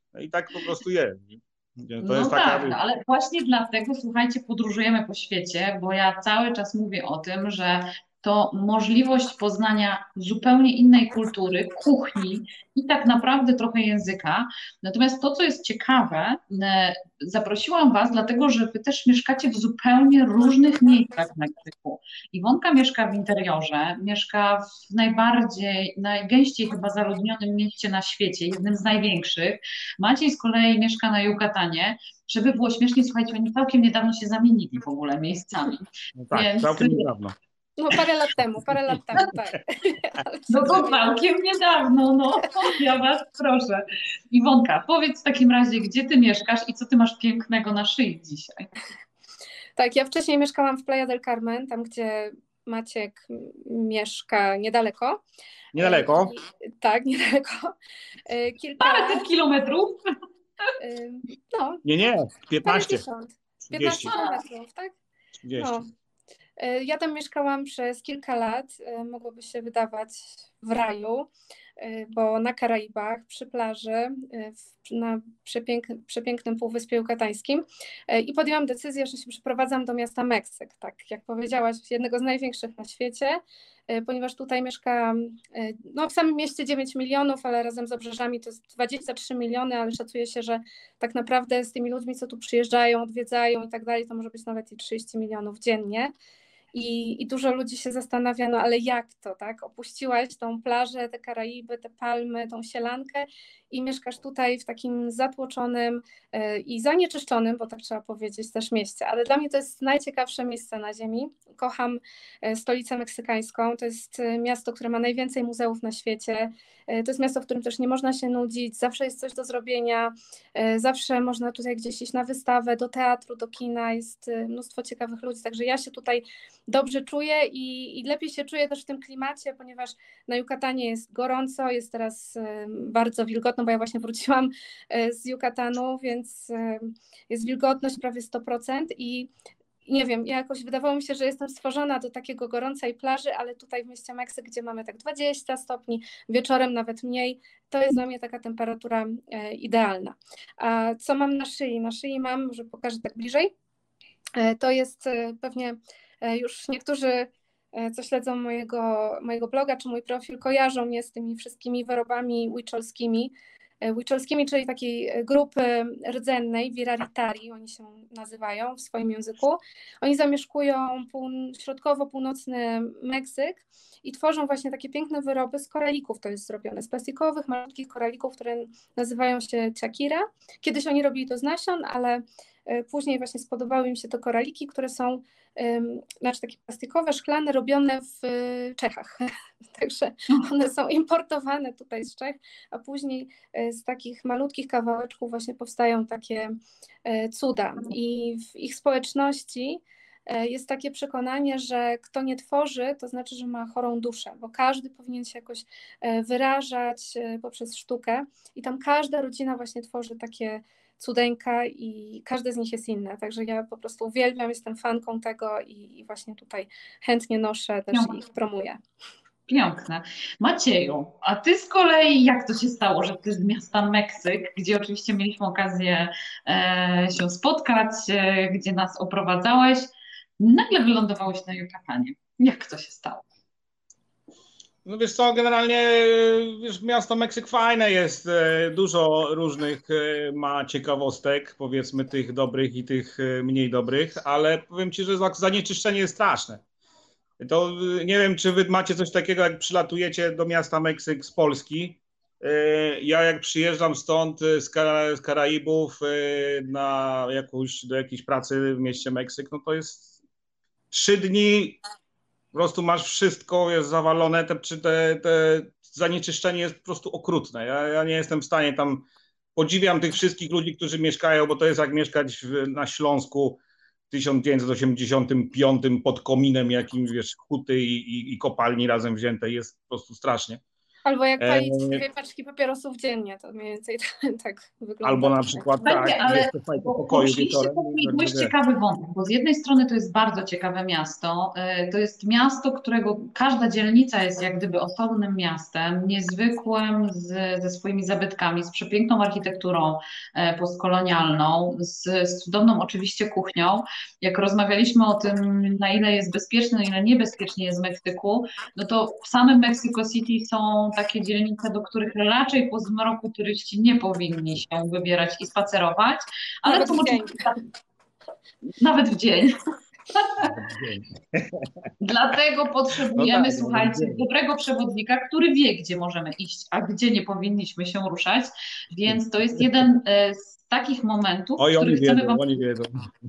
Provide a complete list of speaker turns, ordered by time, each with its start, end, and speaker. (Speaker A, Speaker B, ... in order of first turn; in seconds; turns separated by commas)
Speaker A: 0.1-2.8, Speaker B: 2.0-35.8, Speaker A: 36.2-37.4, Speaker B: 36.3-37.0, Speaker C: 37.8-41.2, Speaker B: 40.5-48.7, Speaker C: 49.8-55.2, Speaker A: 55.7-56.4, Speaker C: 55.7-57.8, Speaker C: 58.3-59.3, Speaker B: 58.8-60.0, Speaker C: 60.8-61.8, Speaker A: 61.8-63.0, Speaker C: 62.6-64.9, Speaker A: 63.6-64.1, Speaker B: 64.1-64.4, Speaker A: 65.4-65.8, Speaker C: 65.6-65.9, Speaker C: 66.6-96.1, Speaker C: 96.7-139.3, Speaker C: 139.9-153.5, Speaker C: 154.4-218.8, Speaker B: 217.9-218.2, Speaker B: 219.5-233.2, Speaker A: 234.8-246.6, Speaker A: 247.4-260.1, Speaker A: 260.9-261.8, Speaker A: 262.5-280.6, Speaker C: 281.1-286.2, Speaker A: 281.4-282.0, Speaker A: 285.0-288.5, Speaker B: 285.8-317.6, Speaker C: 316.6-317.4, Speaker B: 318.8-319.6, Speaker B: 320.1-320.5, Speaker A: 320.4-321.7, Speaker B: 322.0-332.5, Speaker A: 323.2-324.2, Speaker A: 329.1-329.6, Speaker A: 331.6-333.1